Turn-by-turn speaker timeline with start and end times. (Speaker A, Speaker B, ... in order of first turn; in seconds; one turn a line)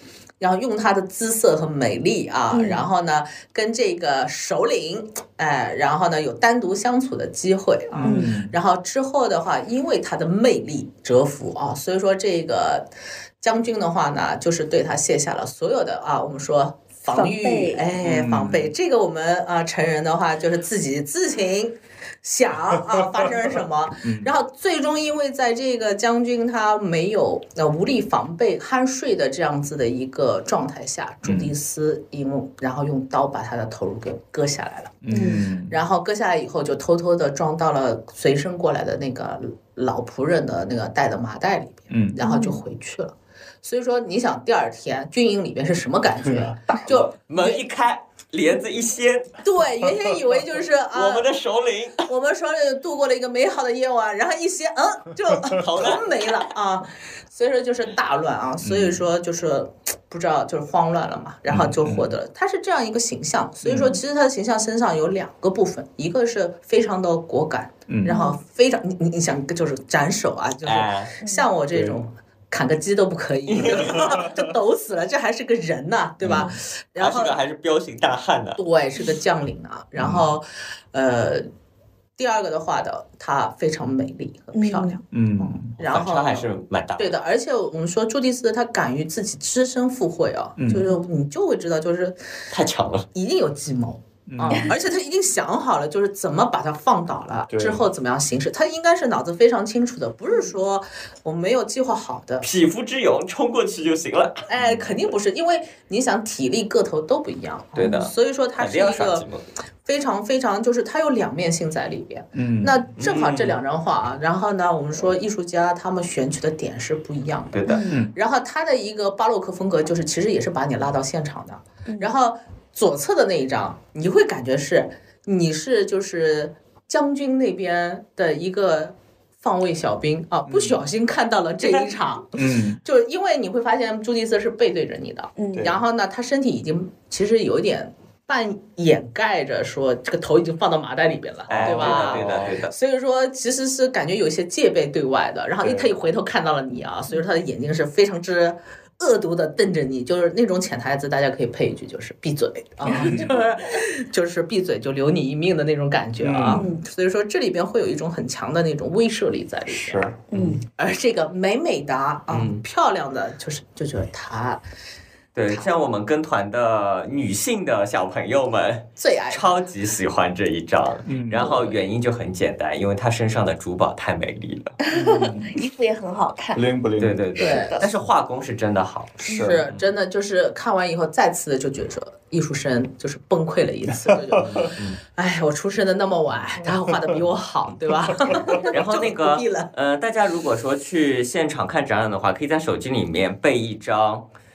Speaker A: 0.4-12.9
Speaker B: 2.5-2.9
Speaker C: 7.9-8.5
Speaker B: 8.0-8.3
Speaker A: 13.4-35.0
Speaker B: 17.1-17.8
Speaker C: 18.0-18.7
Speaker C: 24.0-24.3
Speaker C: 31.2-31.5
Speaker C: 35.0-35.8
Speaker B: 35.1-35.4
Speaker A: 35.7-47.6
Speaker C: 41.9-42.2
Speaker B: 42.2-42.6
Speaker C: 46.2-46.7
Speaker D: 46.8-49.4
Speaker A: 49.4-51.3
Speaker D: 50.9-52.1
Speaker A: 52.0-77.4
Speaker D: 55.6-56.4
Speaker C: 58.6-59.0
Speaker C: 61.5-62.1
Speaker C: 63.6-64.0
Speaker C: 67.9-68.2
Speaker B: 68.0-68.4
Speaker D: 70.6-71.1
Speaker B: 71.2-71.5
Speaker C: 71.7-72.0
Speaker D: 73.5-74.2
Speaker C: 73.8-74.3
Speaker C: 76.2-76.5
Speaker D: 77.0-78.6
Speaker A: 78.6-81.5
Speaker C: 80.0-80.2
Speaker A: 82.2-92.2
Speaker B: 84.5-85.0
Speaker C: 85.1-85.7
Speaker D: 85.8-87.1
Speaker C: 90.6-90.8
Speaker D: 92.5-93.0
Speaker A: 93.1-102.5
Speaker C: 94.3-94.7
Speaker B: 94.5-94.7
Speaker C: 97.5-97.8
Speaker D: 102.4-104.5
Speaker A: 104.5-109.2
Speaker C: 104.6-104.9
Speaker D: 107.8-109.4
Speaker A: 109.8-160.1
Speaker C: 112.3-112.8
Speaker D: 113.0-113.6
Speaker D: 117.5-117.8
Speaker B: 117.7-118.0
Speaker C: 117.9-118.1
Speaker B: 121.8-122.1
Speaker C: 130.5-130.8
Speaker C: 132.3-132.8
Speaker B: 135.4-135.7
Speaker C: 135.5-135.8
Speaker C: 141.5-142.6
Speaker D: 141.5-142.7
Speaker C: 145.6-145.9
Speaker B: 152.8-153.3
Speaker C: 152.9-153.4
Speaker C: 156.2-156.6
Speaker B: 156.5-156.8
Speaker C: 159.7-160.2
Speaker B: 160.3-160.6
Speaker D: 160.3-160.6
Speaker A: 160.7-164.6
Speaker D: 162.3-162.6
Speaker D: 165.3-174.7
Speaker A: 165.5-165.8
Speaker A: 169.0-169.5
Speaker C: 171.1-171.4
Speaker B: 174.9-176.6
Speaker C: 174.9-175.5
Speaker C: 176.5-177.2
Speaker D: 177.0-179.8
Speaker B: 177.3-177.8
Speaker A: 177.4-177.8
Speaker C: 179.2-179.6
Speaker B: 179.3-179.6
Speaker A: 179.3-189.7
Speaker C: 184.1-184.7
Speaker D: 184.4-185.0
Speaker C: 188.1-188.6
Speaker D: 188.7-194.3